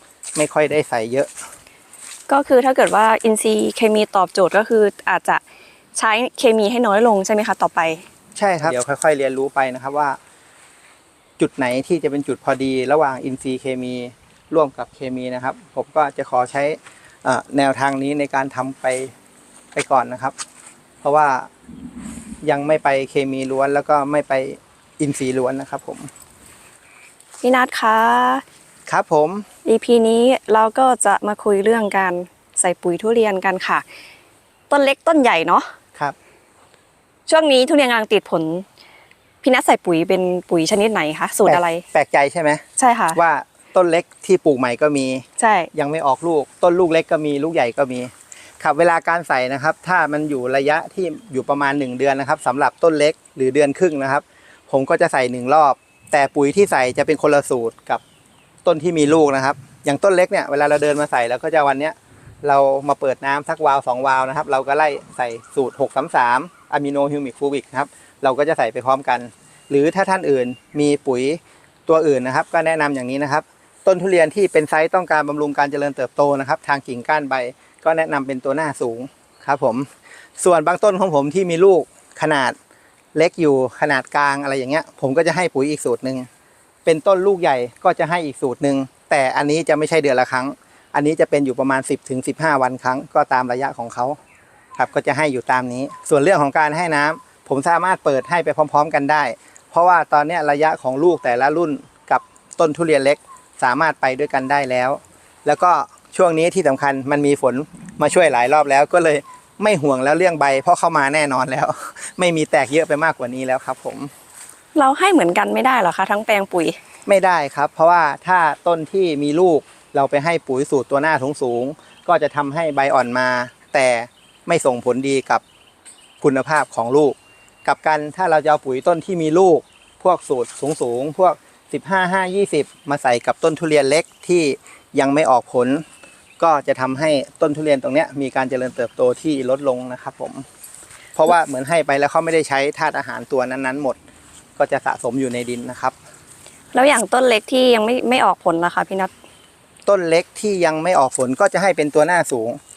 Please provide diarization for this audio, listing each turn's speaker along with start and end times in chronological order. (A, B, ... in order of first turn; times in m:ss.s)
0:00.4-0:01.3 A
0:02.3-0:05.4 B
0:06.0-0:08.0 B
0:08.4-0:10.2 A
0:11.4-0:19.1 A
0:19.7-0:20.3 A
0:21.0-0:21.5 A
0:22.4-0:26.1 A
0:27.4-0:28.4 B
0:28.9-0:29.5 A
0:29.7-0:33.8 B
0:34.7-0:35.7 B
0:37.3-0:38.7 B
0:39.4-0:41.8 B
0:41.4-0:58.0 A
0:42.8-0:43.2 B
0:45.4-0:45.7 B
0:58.6-1:22.6 A
1:23.1-1:26.3 A
1:26.8-1:34.2 A
1:34.8-1:54.1 A
1:54.8-1:56.8 B
1:57.1-2:05.4 A
2:06.2-2:15.8 A
2:16.4-2:20.4 A
2:21.1-2:24.0 A
2:24.6-2:26.0 A
2:26.7-2:29.1 B
2:29.8-2:32.6 A